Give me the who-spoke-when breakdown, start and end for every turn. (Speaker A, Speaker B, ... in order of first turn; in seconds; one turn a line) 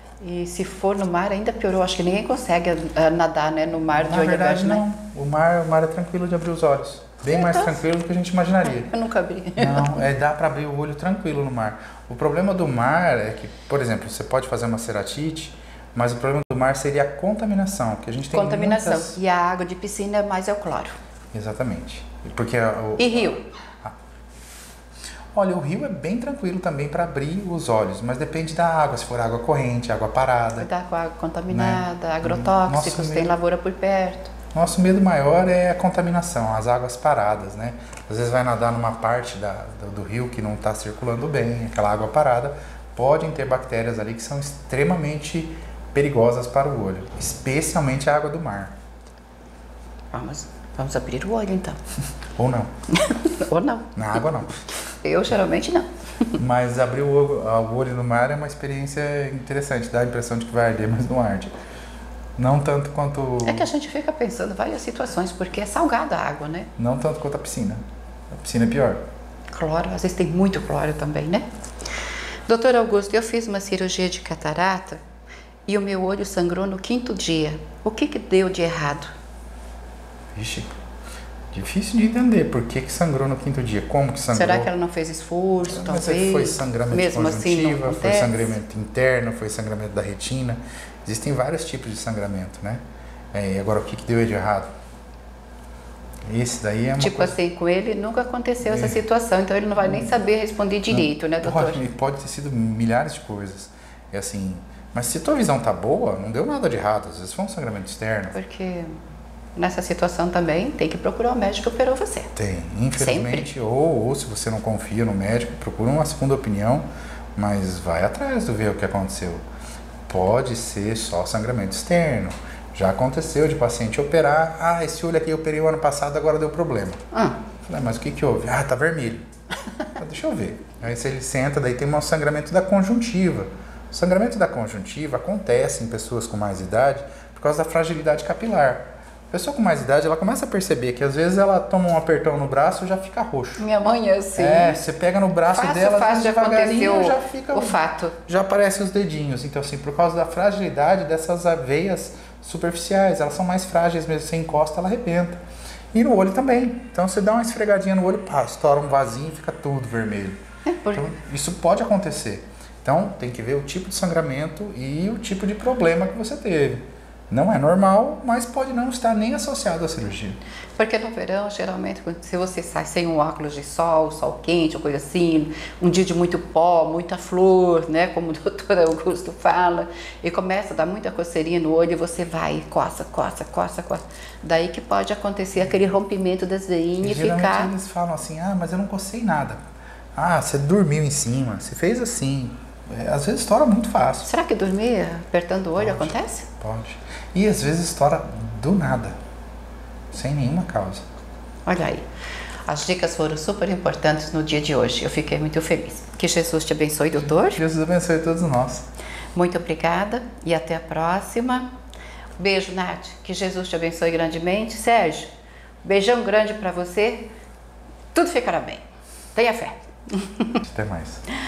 Speaker A: 0.2-4.8
Speaker B: 4.0-8.9
Speaker A: 7.3-7.8
Speaker A: 8.6-10.1
Speaker B: 9.6-19.2
Speaker A: 18.3-20.9
Speaker B: 21.3-23.9
Speaker A: 23.0-23.4
Speaker B: 25.3-30.7
Speaker A: 30.6-34.3
Speaker B: 31.5-33.3
Speaker B: 34.5-48.7
Speaker A: 50.1-51.8
Speaker B: 52.4-52.7
Speaker A: 52.9-54.2
Speaker B: 53.9-54.5
Speaker A: 55.0-55.9
Speaker B: 56.4-61.5
Speaker B: 62.4-63.7
Speaker A: 63.4-66.7
Speaker B: 66.8-69.0
Speaker A: 69.5-71.5
Speaker A: 72.5-75.0
Speaker A: 75.7-79.1
Speaker B: 80.3-80.7
Speaker B: 81.5-84.7
Speaker A: 84.3-88.6
Speaker B: 85.6-92.8
Speaker B: 93.3-94.7
Speaker B: 96.3-97.4
Speaker A: 97.0-101.8
Speaker B: 98.6-99.0
Speaker B: 99.8-100.1
Speaker B: 100.9-108.3
Speaker A: 108.3-109.0
Speaker A: 109.5-112.3
Speaker B: 112.3-116.8
Speaker A: 112.9-113.5
Speaker B: 117.3-119.4
Speaker B: 120.1-127.0
Speaker A: 127.1-127.4
Speaker B: 127.7-129.2
Speaker B: 129.9-143.6
Speaker A: 143.6-144.8
Speaker B: 144.4-155.4
Speaker A: 145.5-148.1
Speaker B: 155.9-160.4
Speaker A: 160.6-161.1
Speaker B: 160.9-170.4
Speaker A: 170.8-187.7
Speaker B: 187.0-189.6
Speaker B: 190.1-194.3
Speaker A: 194.2-196.4
Speaker B: 195.8-199.2
Speaker B: 200.1-201.0
Speaker A: 201.7-202.1
Speaker A: 202.7-207.6
Speaker B: 207.2-208.8
Speaker A: 209.3-211.7
Speaker A: 212.4-215.3
Speaker A: 215.8-217.3
Speaker A: 218.1-220.6
Speaker B: 220.6-221.2